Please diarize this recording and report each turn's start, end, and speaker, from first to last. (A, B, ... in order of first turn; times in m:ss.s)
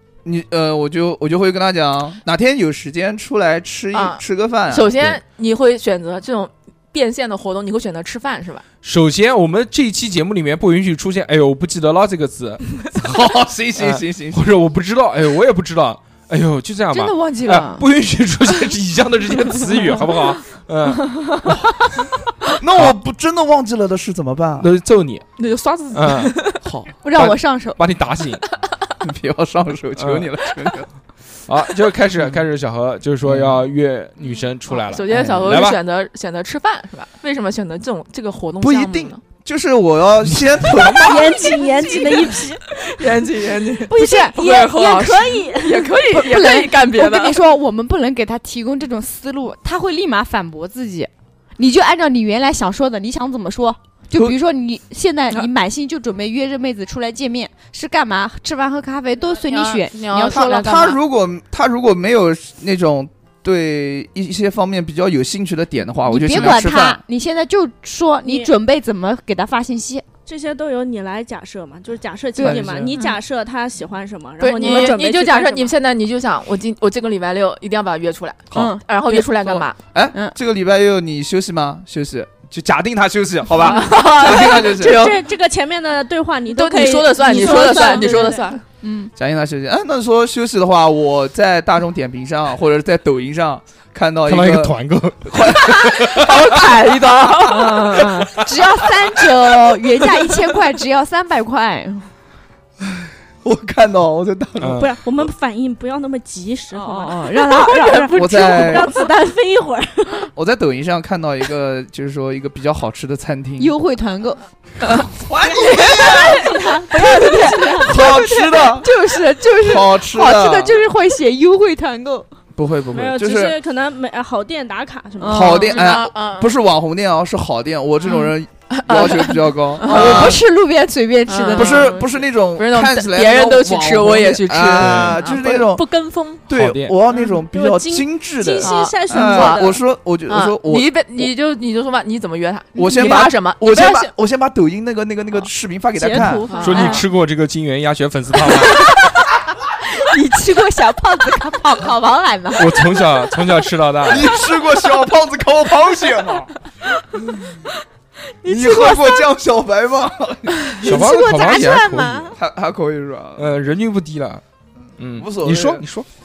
0:00.2-0:05.2 A
0:03.9-0:08.6 B
0:08.8-0:13.0 C
0:13.0-0:14.5 A
0:13.8-0:21.3 C
0:16.9-0:17.8 D
0:21.3-0:21.5 D
0:22.6-0:24.7 A
0:24.6-0:25.3 C
0:25.4-0:26.6 B
0:25.9-0:26.4 C
0:26.6-0:26.9 A
0:27.0-0:27.8 D
0:27.1-0:28.4 C
0:29.0-0:30.9 A
0:30.0-0:30.3 C
0:31.5-0:35.8 C
0:32.2-0:32.4 A
0:33.2-0:33.7 A
0:34.7-0:39.2 B
0:35.1-0:35.5 A
0:38.6-0:41.4 A
0:40.3-0:40.7 C
0:41.0-0:42.6 D
0:41.4-0:42.4 E
0:41.7-0:47.4 B
0:43.9-1:00.9 D
0:59.4-1:01.0 B
1:00.3-1:07.0 A
1:06.1-1:10.0 D
1:08.2-1:08.5 E
1:10.3-1:15.7 E
1:12.4-1:13.0 D
1:12.4-1:13.0 A
1:14.4-1:19.8 B
1:18.5-1:18.8 A
1:18.6-1:20.4 D
1:19.9-1:25.1 A
1:23.6-1:25.2 B
1:24.8-1:28.6 E
1:26.5-1:28.6 B
1:27.3-1:29.1 D
1:29.2-1:36.4 A
1:34.3-1:36.3 C
1:35.8-1:37.8 B
1:37.5-1:42.1 D
1:43.4-1:44.9 A
1:44.6-1:44.9 C
1:44.7-1:50.3 E
1:46.7-1:48.2 D
1:47.8-1:48.8 B
1:48.2-1:48.9 A
1:50.4-1:53.7 A
1:53.6-1:54.4 D
1:54.8-1:55.1 B
1:55.0-1:56.5 A
1:55.6-1:58.1 E
1:56.1-1:56.4 D
1:56.9-2:02.3 D
1:57.0-1:57.6 B
1:57.8-1:58.9 A
1:59.4-2:00.8 A
2:02.6-2:03.6 A
2:02.9-2:05.9 E
2:05.2-2:05.8 D
2:05.3-2:10.4 A
2:05.6-2:06.6 B
2:08.7-2:10.4 B
2:09.8-2:12.0 D
2:11.3-2:16.5 B
2:11.5-2:15.9 A
2:14.8-2:15.2 C
2:16.5-2:21.3 A
2:16.5-2:17.0 C
2:17.5-2:19.8 E
2:18.6-2:19.8 B
2:20.3-2:24.1 B
2:22.8-2:26.5 A
2:22.9-2:23.2 D
2:26.0-2:27.1 E
2:26.5-2:27.0 B
2:26.6-2:28.9 C
2:26.7-2:27.0 D
2:30.0-2:32.9 D
2:32.6-2:34.3 C
2:34.1-2:36.5 A
2:38.4-2:39.3 D
2:38.4-2:41.1 A
2:40.7-2:42.4 D
2:40.8-2:42.4 C
2:42.4-2:43.6 A
2:43.4-2:44.4 C
2:45.0-2:46.1 C
2:45.1-2:45.8 A